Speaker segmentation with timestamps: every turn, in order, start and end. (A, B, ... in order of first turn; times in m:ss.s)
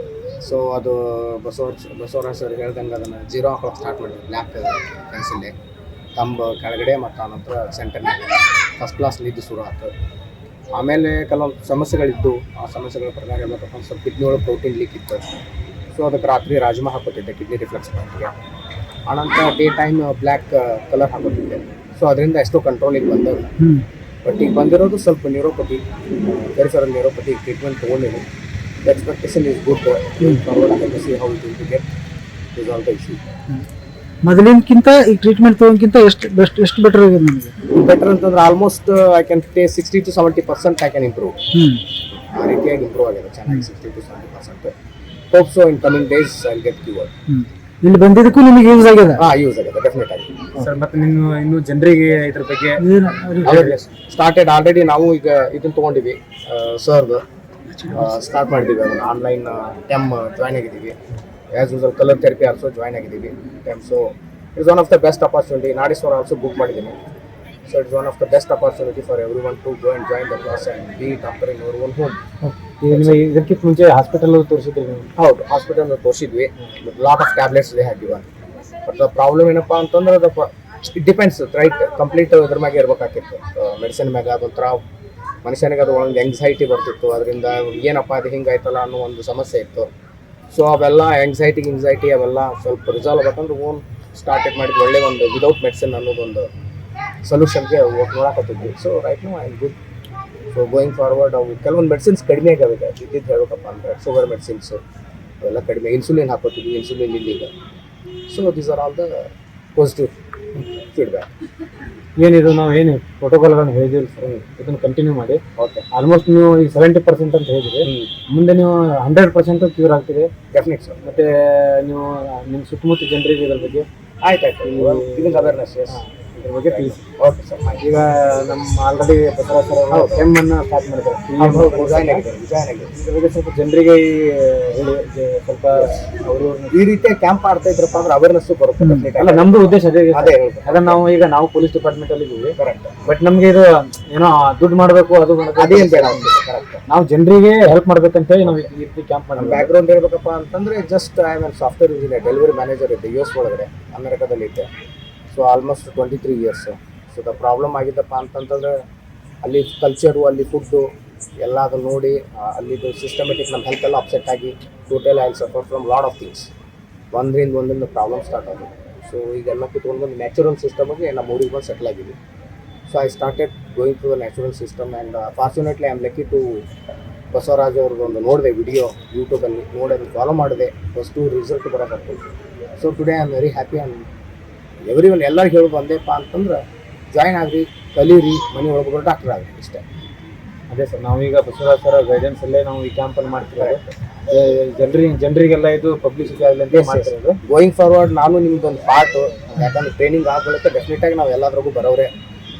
0:00.4-0:05.5 A
0:06.2-0:09.9 A
0:10.7-0:15.2 A
0:15.9-0:18.3 A
0:19.1-0:23.5 A
0:24.2-0:28.3 A
0:28.8-0:31.9 A
0:32.5-0:33.3 A
0:34.2-0:37.6 B
0:37.6-0:41.4 A
0:41.5-0:41.8 B
0:42.2-0:44.7 A
0:45.3-0:47.1 A
0:47.3-0:49.2 B
0:49.1-0:50.5 A
0:50.5-0:52.8 C
0:52.8-0:53.6 B
0:53.4-0:57.2 A
0:53.5-0:53.8 C
0:57.9-1:01.0 A
1:01.5-1:07.0 A
1:07.7-1:12.2 A
1:12.4-1:15.1 C
1:12.9-1:13.2 A
1:15.2-1:18.3 A
1:18.8-1:24.8 A
1:25.4-1:29.9 A
1:30.5-1:36.5 A
1:37.2-1:39.8 A
1:40.5-1:44.8 A
1:45.4-1:47.5 A
1:48.3-1:51.3 A
1:52.2-2:00.3 C
1:55.6-1:55.9 A
1:57.8-1:58.1 A
2:00.5-2:01.0 A
2:01.0-2:03.9 C
2:04.2-2:06.0 A
2:04.6-2:07.0 C
2:06.6-2:07.9 A
2:07.8-2:12.3 C
2:09.9-2:10.3 A
2:11.4-2:12.9 A
2:12.9-2:16.7 C
2:16.7-2:21.0 A
2:19.2-2:26.3 C
2:22.6-2:22.9 A
2:25.6-2:26.8 A
2:26.9-2:29.7 C
2:29.4-2:34.7 A
2:35.3-2:38.8 A
2:39.4-2:40.9 A
2:41.4-2:46.5 A
2:47.1-2:52.2 A
2:52.9-2:56.6 A
2:57.3-3:02.2 A
3:02.8-3:04.1 A
3:04.8-3:09.8 A
3:10.7-3:17.4 C
3:16.7-3:22.1 A